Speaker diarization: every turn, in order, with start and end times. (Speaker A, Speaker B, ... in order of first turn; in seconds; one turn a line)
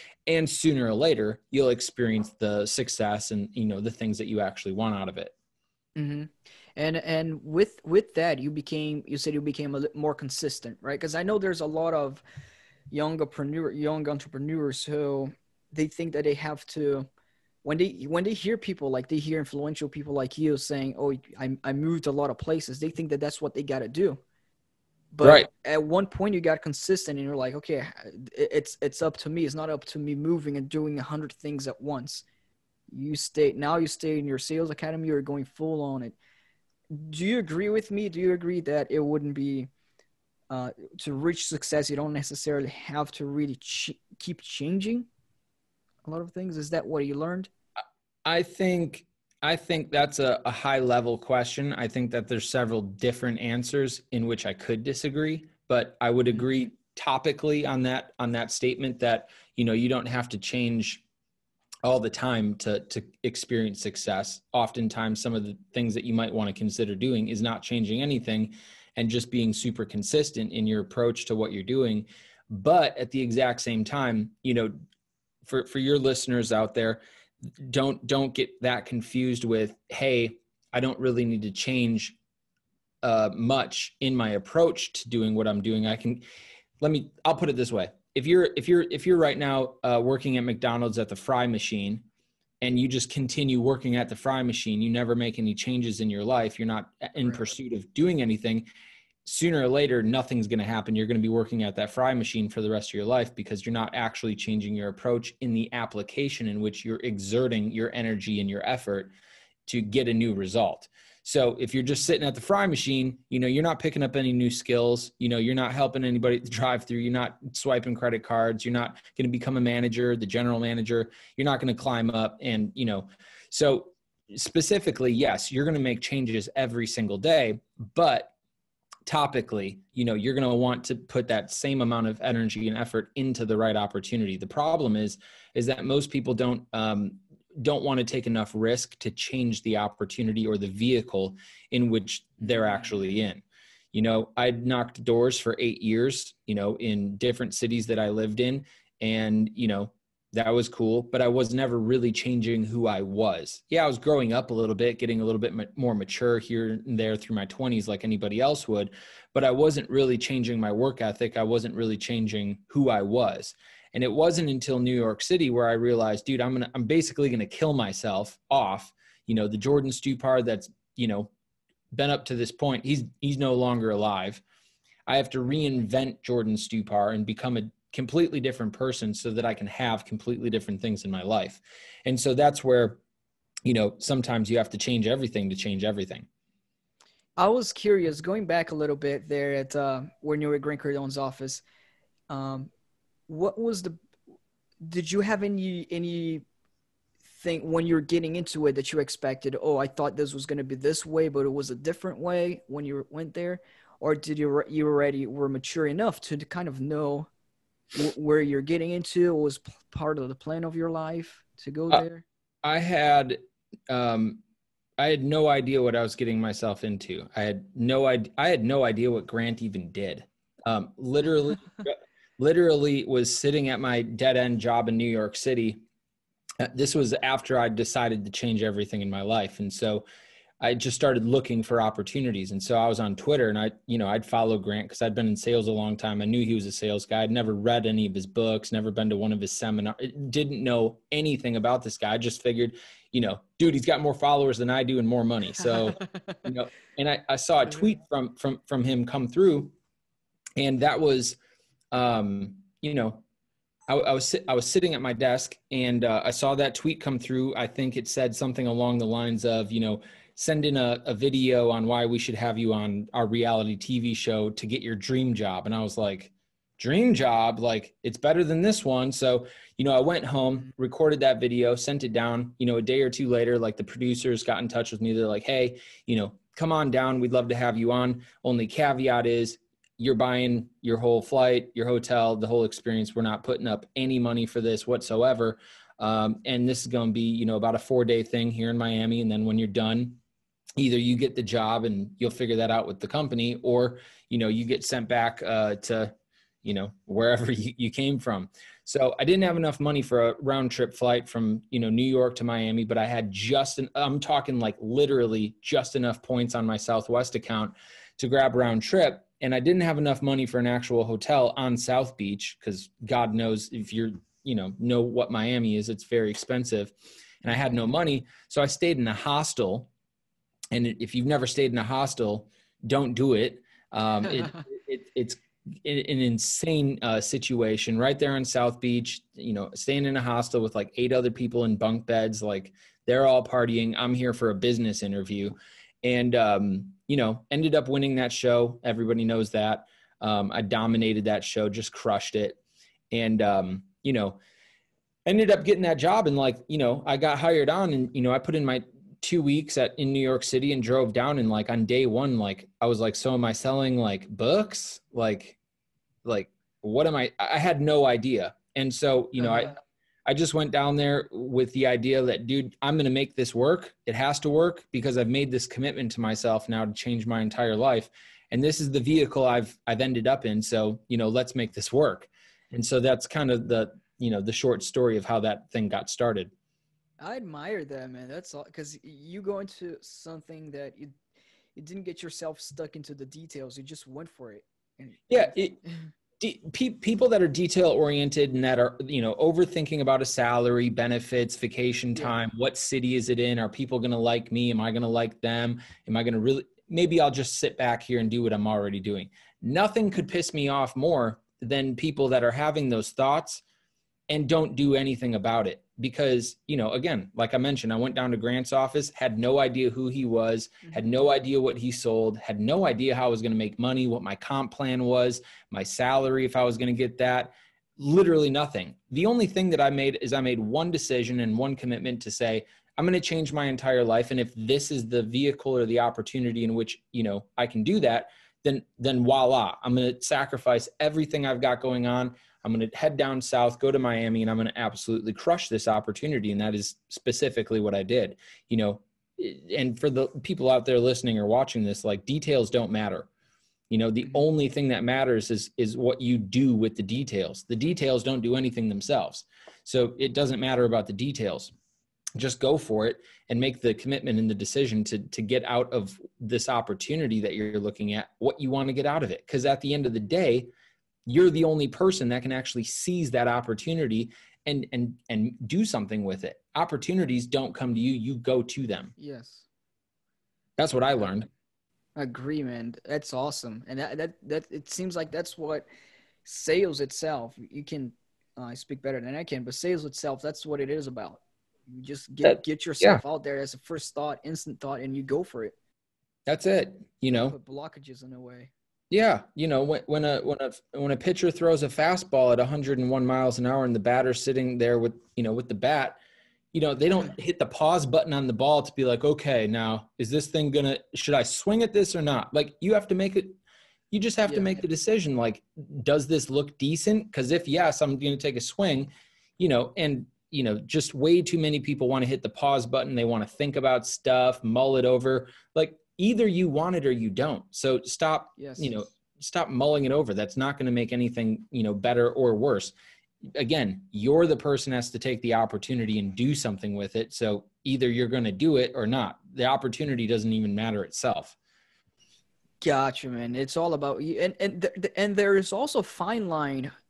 Speaker A: 0.3-5.3
Speaker B: 6.0-12.2
Speaker B: 12.9-17.1
Speaker B: 17.6-24.2
Speaker B: 25.1-32.2
Speaker A: 25.2-25.5
Speaker B: 32.9-36.2
Speaker B: 36.9-39.7
Speaker B: 40.5-45.1
Speaker B: 46.0-47.5
Speaker A: 48.2-61.0
Speaker A: 61.8-74.7
Speaker A: 75.4-77.0
Speaker A: 77.6-82.2
Speaker A: 83.0-86.2
Speaker A: 86.8-92.0
Speaker A: 92.6-98.7
Speaker A: 99.2-109.1
Speaker A: 109.7-128.3
Speaker A: 129.1-171.3
Speaker A: 171.9-174.4
Speaker A: 175.1-183.0
Speaker A: 183.6-186.3
Speaker B: 187.4-191.6
Speaker B: 192.3-192.7
Speaker B: 193.3-193.9
Speaker B: 194.8-196.4
Speaker B: 197.3-207.3
Speaker B: 207.9-212.2
Speaker A: 212.6-214.4
Speaker A: 215.0-225.8
Speaker A: 226.6-230.0
Speaker A: 230.6-249.7
Speaker B: 246.0-246.4
Speaker A: 250.6-251.4
Speaker A: 251.9-253.2
Speaker A: 253.9-290.2
Speaker A: 290.8-296.1
Speaker A: 296.6-319.9
Speaker A: 320.7-342.6
Speaker A: 343.1-344.4
Speaker A: 345.2-355.6
Speaker A: 356.2-376.5
Speaker B: 377.2-381.1
Speaker B: 381.8-385.6
Speaker A: 385.3-385.8
Speaker A: 386.4-403.6
Speaker A: 404.3-443.3
Speaker A: 443.9-451.7
Speaker A: 452.4-460.7
Speaker A: 461.2-469.1
Speaker B: 469.2-469.6
Speaker A: 470.8-471.5
Speaker B: 472.1-475.9
Speaker B: 476.4-485.8
Speaker A: 482.4-483.2
Speaker A: 486.4-487.6
Speaker B: 487.3-488.7
Speaker A: 489.1-496.2
Speaker A: 496.7-503.6
Speaker A: 504.1-522.9
Speaker B: 504.5-504.7
Speaker B: 518.6-518.9
Speaker A: 523.5-531.5
Speaker B: 532.8-536.9